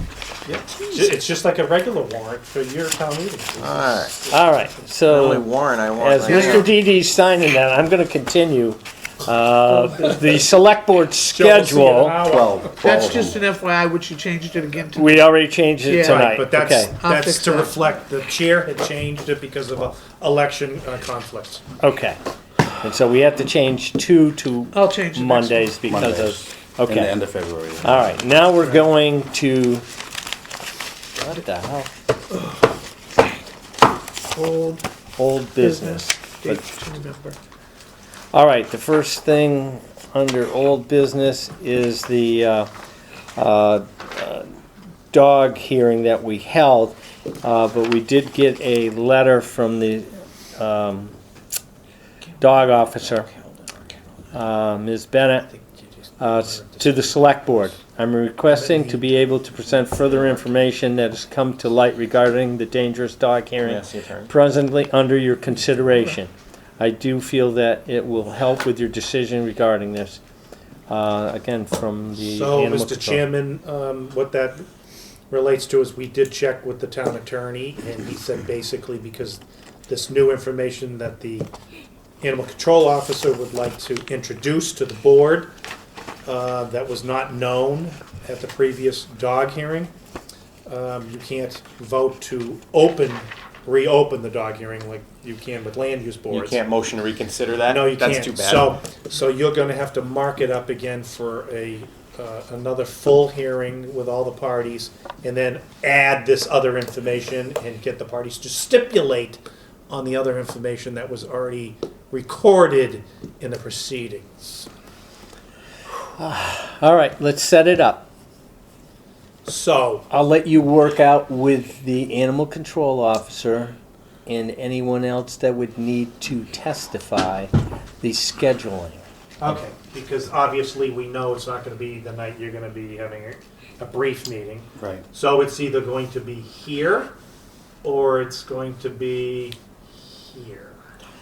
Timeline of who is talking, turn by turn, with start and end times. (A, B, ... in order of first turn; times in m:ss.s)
0:00.4-0:04.7 A
0:00.8-0:01.1 B
0:03.6-0:04.2 B
0:04.3-0:12.2 C
0:05.0-0:06.7 B
0:06.3-0:06.7 A
0:11.3-0:13.1 A
0:12.2-0:13.4 D
0:12.8-0:15.3 E
0:15.0-0:17.0 C
0:15.8-0:17.9 E
0:16.0-0:21.6 A
0:21.8-0:22.2 C
0:22.8-0:27.2 C
0:24.7-0:25.8 E
0:25.8-0:28.0 D
0:27.8-0:29.8 C
0:31.2-0:31.9 C
0:34.3-0:34.8 E
0:35.2-0:36.6 C
0:35.6-0:37.4 E
0:38.3-0:42.7 C
0:43.4-0:44.4 C
0:45.1-0:51.1 C
0:52.4-0:53.7 B
0:52.4-0:53.3 C
0:54.3-0:55.5 C
0:55.5-0:57.2 A
0:56.2-1:10.2 C
0:58.5-0:59.1 A
1:03.6-1:04.3 B
1:10.9-1:13.3 C
1:12.3-1:14.6 A
1:15.3-1:21.5 A
1:22.2-1:25.5 A
1:26.2-1:29.9 A
1:30.6-1:36.7 A
1:36.3-1:38.8 B
1:37.6-1:54.7 A
1:56.2-1:58.1 C
1:59.4-2:00.0 A
2:00.1-2:09.0 C
2:09.4-2:17.1 A
2:17.8-2:20.8 A